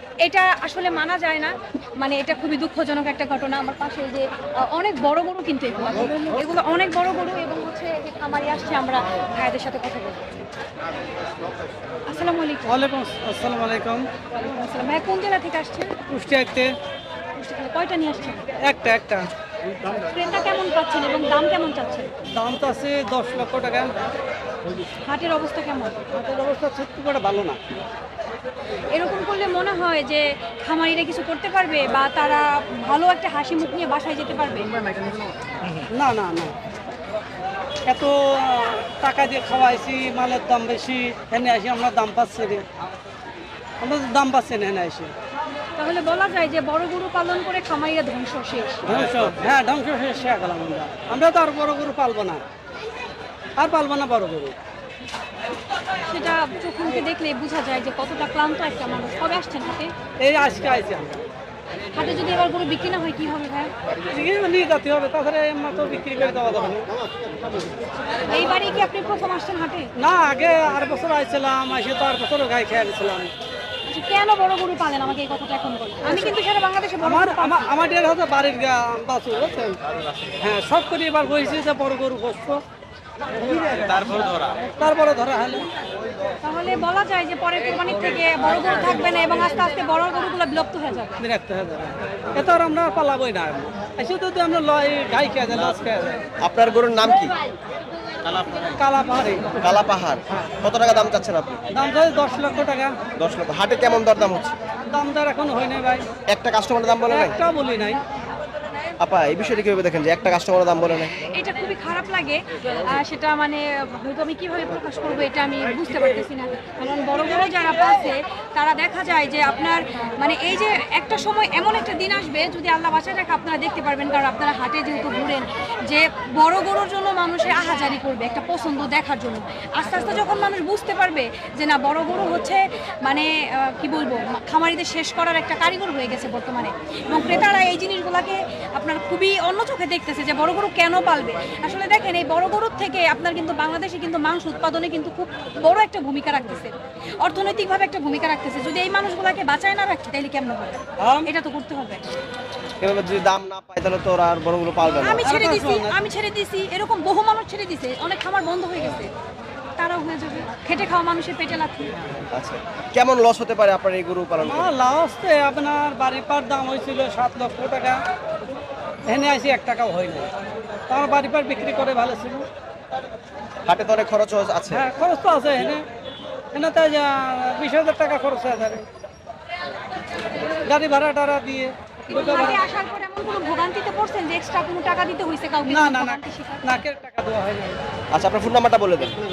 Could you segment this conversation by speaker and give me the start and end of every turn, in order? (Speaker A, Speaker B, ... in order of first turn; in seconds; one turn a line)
Speaker A: 0.2-10.4
Speaker A: 12.1-12.8
Speaker B: 12.7-14.1
Speaker A: 14.3-16.0
Speaker B: 16.1-16.7
Speaker A: 17.3-18.4
Speaker B: 18.6-19.3
Speaker A: 20.0-22.1
Speaker B: 22.3-23.9
Speaker A: 25.0-26.1
Speaker B: 26.1-27.6
Speaker A: 28.9-34.7
Speaker B: 35.9-36.5
Speaker B: 37.9-42.6
Speaker B: 43.8-45.1
Speaker A: 45.8-48.9
Speaker B: 48.9-52.4
Speaker B: 53.6-54.6
Speaker A: 56.1-59.9
Speaker B: 60.2-61.2
Speaker A: 61.9-63.7
Speaker B: 64.1-66.8
Speaker A: 68.3-69.9
Speaker B: 70.0-73.3
Speaker A: 73.8-77.7
Speaker B: 76.1-76.3
Speaker B: 77.0-79.8
Speaker B: 80.4-82.6
Speaker B: 83.5-83.7
Speaker C: 83.7-84.6
Speaker B: 84.8-85.7
Speaker A: 86.4-91.2
Speaker B: 91.2-96.2
Speaker C: 96.4-97.3
Speaker C: 98.2-98.6
Speaker B: 98.8-99.7
Speaker C: 99.6-101.6
Speaker B: 101.7-103.0
Speaker C: 103.2-104.5
Speaker B: 104.9-106.0
Speaker C: 106.3-107.3
Speaker B: 107.1-108.0
Speaker C: 109.0-111.2
Speaker A: 111.2-152.1
Speaker B: 151.0-151.3
Speaker C: 152.8-155.2
Speaker A: 155.0-159.1
Speaker B: 155.2-156.0
Speaker A: 159.8-162.0
Speaker C: 162.3-164.7
Speaker B: 164.4-168.0
Speaker B: 169.1-170.3
Speaker B: 170.9-172.4
Speaker C: 173.7-174.8
Speaker B: 174.7-175.8
Speaker B: 176.5-178.8
Speaker B: 180.7-182.7
Speaker A: 182.1-186.7
Speaker B: 185.7-187.8
Speaker C: 188.1-189.2